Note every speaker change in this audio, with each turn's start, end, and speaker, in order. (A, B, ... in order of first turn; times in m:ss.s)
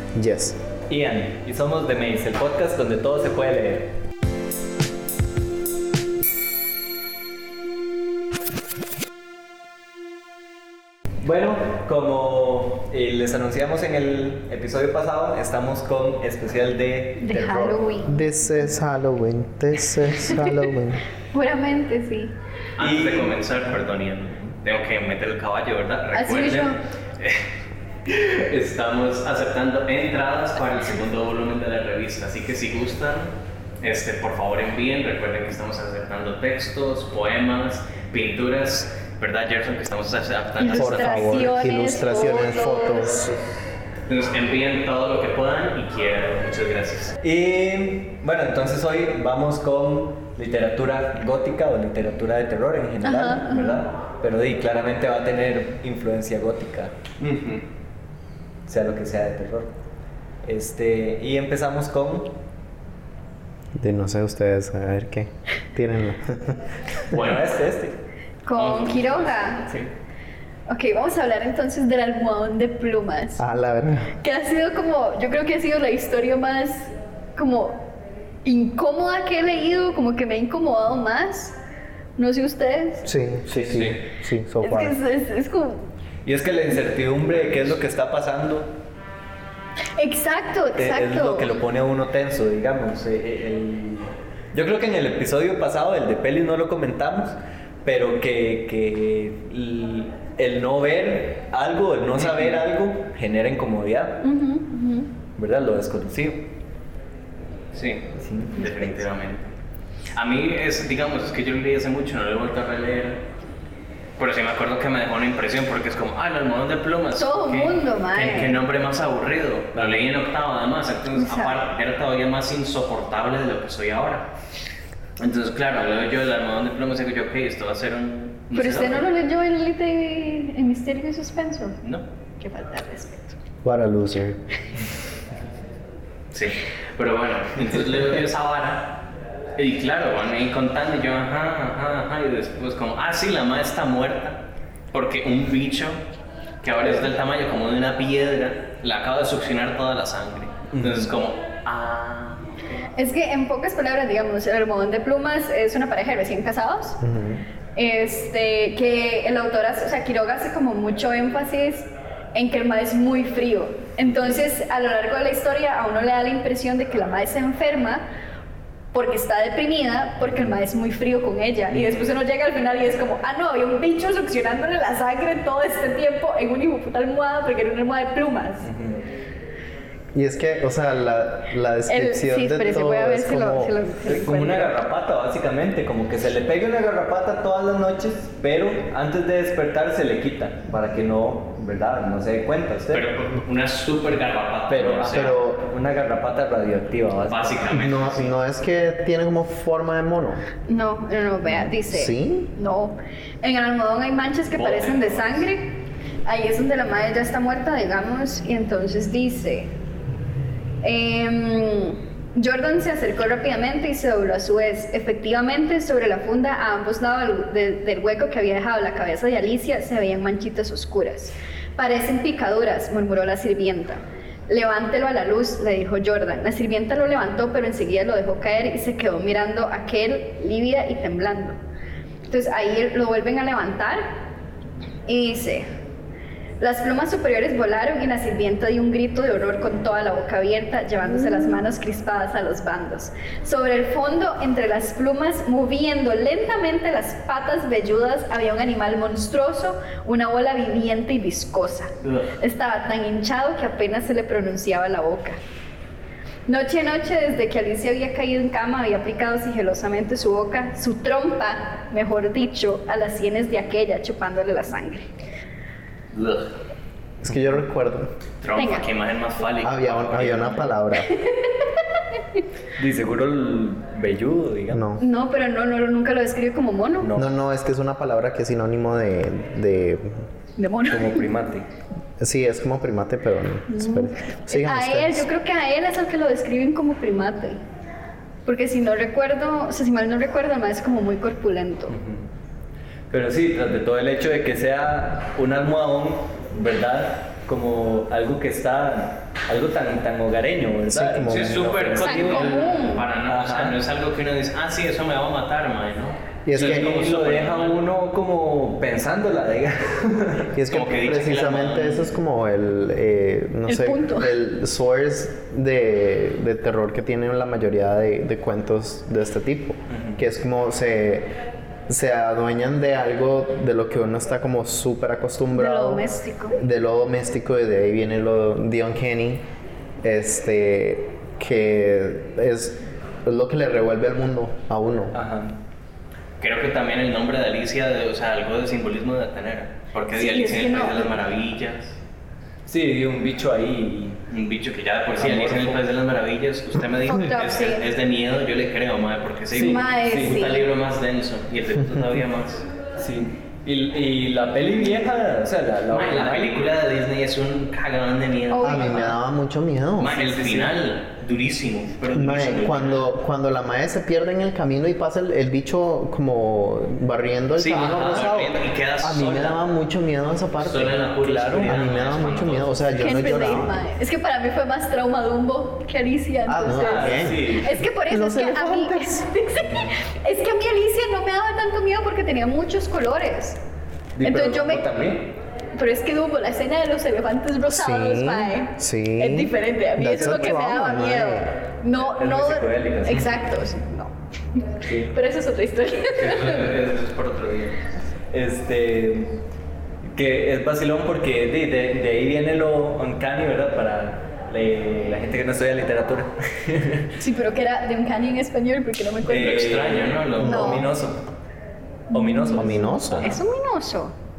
0:00.2-0:00.6 A
0:00.9-0:03.9 B
0:11.2-0:17.8 B
0:17.2-0:18.2 C
0:18.0-0:21.0 A
0:20.3-0:20.6 C
0:21.3-0:22.3 C
0:22.8-0:27.4 D
0:22.8-0:23.3 B
0:26.1-0:26.8 C
0:28.1-0:41.5 D
0:40.6-0:43.3 C
0:40.8-0:43.4 A
0:44.1-0:47.2 D
0:47.2-0:56.9 B
0:53.0-0:53.8 C
0:57.2-0:57.6 D
0:58.7-0:59.7 B
1:00.4-1:02.3 B
1:03.8-1:06.6 A
1:07.1-1:07.4 D
1:07.1-1:08.0 B
1:08.4-1:09.7 C
1:08.6-1:09.2 D
1:10.7-1:13.5 C
1:13.4-1:14.1 A
1:14.2-1:17.9 C
1:18.4-1:21.6 C
1:22.2-1:23.1 C
1:23.0-1:25.0 A
1:23.5-1:24.0 D
1:24.6-1:25.9 C
1:26.2-1:28.7 B
1:30.0-1:31.5 C
1:30.8-1:44.2 B
1:42.2-1:42.6 D
1:44.2-1:45.1 C
1:45.4-1:46.4 B
1:47.7-1:49.5 D
1:48.2-1:48.7 B
1:50.2-1:53.2 D
1:54.2-2:04.3 D
1:57.2-1:58.6 C
2:01.2-2:01.6 C
2:05.2-2:09.0 D
2:08.6-2:11.8 C
2:12.4-2:13.4 C
2:13.6-2:14.4 A
2:16.3-2:19.0 D
2:19.6-2:24.4 D
2:24.9-2:26.0 D
2:26.6-2:32.8 D
2:30.7-2:31.0 B
2:33.0-2:37.0 C
2:37.0-2:37.4 A
2:37.8-2:48.0 C
2:44.0-2:44.4 B
2:48.9-2:58.7 C
2:51.7-2:52.0 B
2:58.6-2:59.0 B
3:00.1-3:03.8 A
3:01.9-3:04.7 C
3:04.0-3:13.0 B
3:12.9-3:15.4 D
3:14.7-3:17.7 B
3:15.1-3:15.6 A
3:17.3-3:18.3 D
3:17.7-3:20.4 A
3:20.7-3:29.7 C
3:21.9-3:22.5 A
3:24.5-3:25.4 D
3:30.8-3:51.6 C
3:52.3-3:54.2 C
3:55.1-3:55.7 C
3:56.6-4:15.4 C
4:12.0-4:12.3 D
4:16.5-4:25.1 C
4:26.1-4:26.5 D
4:27.2-4:28.1 A
4:28.4-4:30.7 D
4:28.6-4:28.9 C
4:29.6-4:31.2 A
4:31.0-4:31.7 C
4:32.8-4:34.8 B
4:34.7-4:35.0 A
4:35.0-4:37.1 C
4:37.0-4:37.3 B
4:37.2-4:40.3 A
4:40.6-4:41.3 C
4:40.8-4:41.7 B
4:42.2-4:45.3 A
4:43.7-4:47.6 C
4:48.4-4:52.0 C
4:51.9-4:52.2 B
4:53.1-5:02.7 B
5:00.9-5:01.8 A
5:01.3-5:07.8 D
5:02.0-5:03.0 C
5:03.3-5:03.8 B
5:06.4-5:07.0 A
5:06.6-5:10.5 B
5:10.5-5:21.3 A
5:10.7-5:12.1 D
5:13.7-5:14.3 C
5:19.9-5:20.2 B
5:21.9-5:26.1 A
5:25.5-5:26.6 C
5:26.6-5:29.4 A
5:30.0-5:35.2 A
5:35.1-5:35.5 B
5:36.4-5:42.0 D
5:40.1-5:41.2 C
5:42.7-5:44.2 B
5:44.3-5:52.6 D
5:45.2-5:45.8 B
5:47.0-5:47.8 C
5:49.5-5:50.4 B
5:49.6-5:50.6 C
5:53.0-5:56.5 B
5:55.9-5:59.2 D
5:58.5-5:59.1 C
5:58.6-6:00.3 A
6:00.0-6:03.0 D
6:00.4-6:00.7 B
6:02.1-6:11.1 A
6:07.6-6:09.6 D
6:07.6-6:08.5 B
6:10.6-6:12.9 D
6:11.2-6:11.8 B
6:11.6-6:13.8 A
6:13.0-6:23.6 C
6:16.5-6:19.3 A
6:16.8-6:17.6 B
6:17.3-6:17.6 D
6:24.2-6:25.3 B
6:24.2-6:24.9 C
6:25.8-6:36.7 C
6:27.7-6:31.6 A
6:30.1-6:30.6 B
6:32.0-6:33.4 B
6:34.8-6:35.1 B
6:36.2-6:37.8 D
6:38.3-6:39.4 B
6:40.1-6:47.1 B
6:47.2-6:49.8 C
6:49.2-6:51.2 B
6:49.3-6:50.8 D
6:50.4-6:50.9 A
6:50.5-6:50.9 C
6:52.1-6:53.4 B
6:52.1-6:54.1 C
6:52.6-6:53.4 A